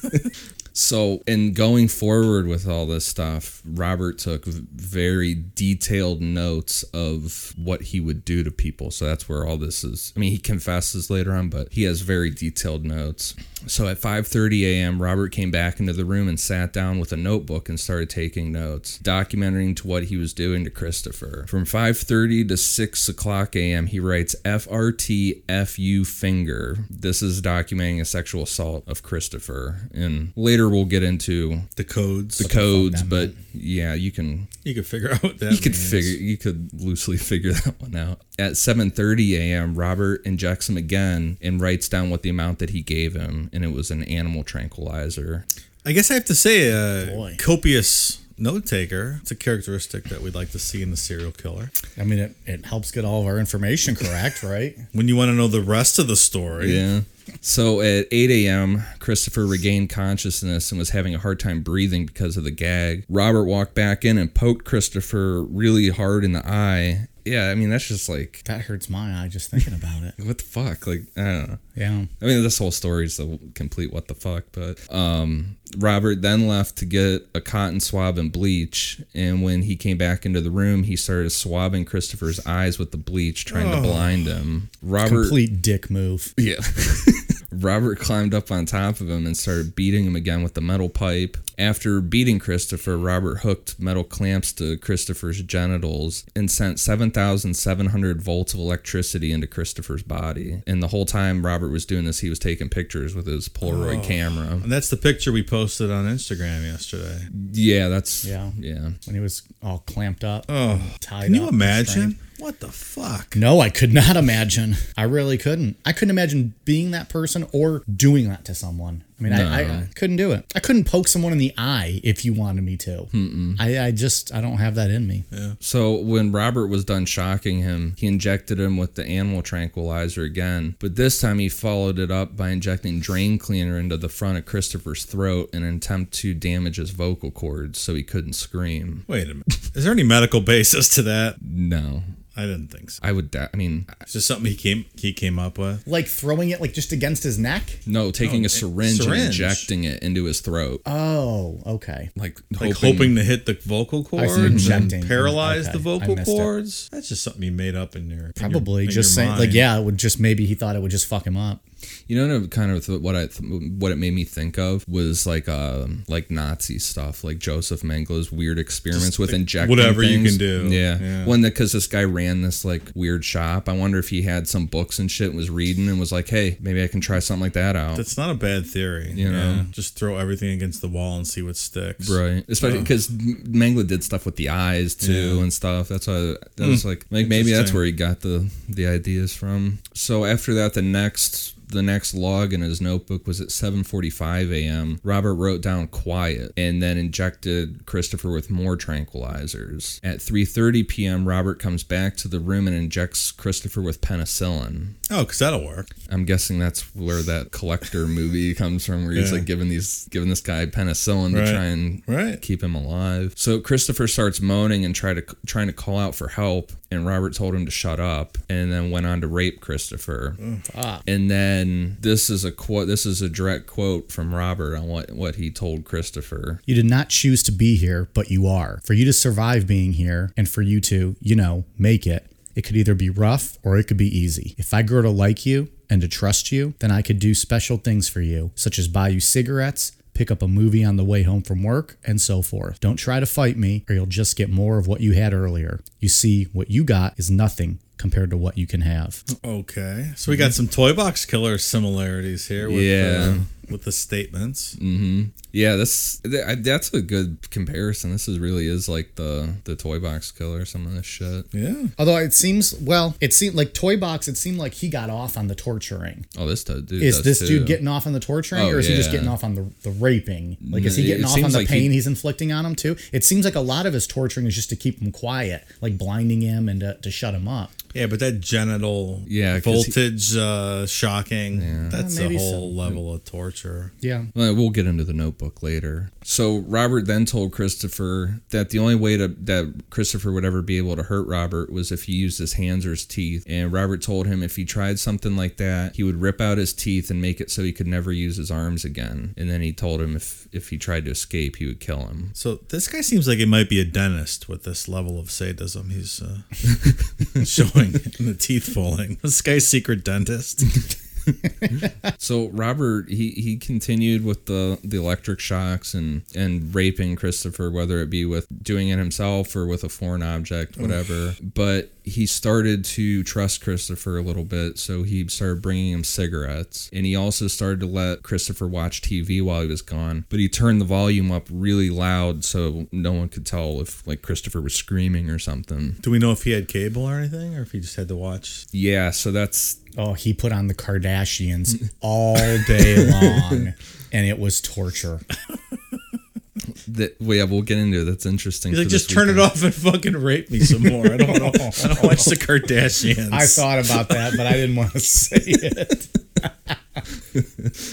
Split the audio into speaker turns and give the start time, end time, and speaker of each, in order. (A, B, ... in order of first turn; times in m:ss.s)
0:00.1-0:31.7 A
0:31.8-0:32.5 B
0:32.4-0:34.5 A
0:32.4-0:33.3 C
0:34.6-0:36.2 B
0:35.5-0:45.4 A
0:45.8-0:51.7 B
0:47.0-0:47.4 C
0:52.0-0:54.8 C
0:54.9-0:56.8 B
0:56.6-1:08.4 A
1:08.4-1:10.1 C
1:10.2-1:11.6 A
1:11.8-1:12.1 C
1:12.2-1:25.4 A
1:23.5-1:24.3 B
1:25.0-1:26.3 C
1:26.4-1:44.6 A
1:43.6-1:47.3 B
1:47.3-1:49.0 A
1:48.2-1:48.5 C
1:49.0-1:52.2 C
1:50.5-1:53.4 B
1:53.3-2:05.2 C
1:59.3-1:59.9 A
2:03.1-2:03.6 A
2:05.3-2:05.6 B
2:05.6-2:19.0 A
2:19.1-2:21.4 B
2:21.4-2:22.1 A
2:22.3-2:23.0 B
2:23.0-2:24.0 A
2:24.1-2:25.8 B
2:25.8-2:27.8 C
2:27.8-2:30.8 A
2:28.2-2:29.7 B
2:30.8-2:32.1 C
2:32.2-2:33.2 A
2:32.6-2:39.7 B
2:34.2-2:36.5 C
2:34.4-2:34.9 A
2:38.4-2:41.6 C
2:42.1-2:58.0 A
2:48.9-2:51.4 B
2:57.9-3:02.9 B
2:59.1-2:59.7 A
3:02.0-3:25.0 A
3:05.0-3:05.5 B
3:06.6-3:07.8 B
3:25.1-3:25.9 B
3:26.1-3:40.4 A
3:29.1-3:29.4 B
3:31.3-3:32.4 B
3:40.7-3:41.0 C
3:41.0-3:46.6 A
3:46.7-4:09.2 C
4:09.3-4:14.8 B
4:12.6-4:13.5 A
4:14.8-4:21.5 A
4:21.5-4:21.9 B
4:22.0-4:26.2 C
4:26.3-4:27.8 A
4:27.0-4:37.7 C
4:28.5-4:29.3 A
4:30.6-4:32.0 A
4:37.9-4:43.9 B
4:39.3-4:40.0 A
4:41.5-4:42.0 A
4:41.9-4:42.7 C
4:44.0-4:44.3 C
4:44.3-5:02.3 A
5:02.4-5:10.7 B
5:12.2-5:36.0 A
5:36.0-5:38.6 B
5:38.7-5:39.8 A
5:40.0-5:45.2 C
5:42.5-5:43.6 A
5:46.9-5:49.5 A
5:48.7-5:53.7 B
5:51.2-5:52.3 C
5:53.3-5:56.7 C
5:57.4-5:57.7 A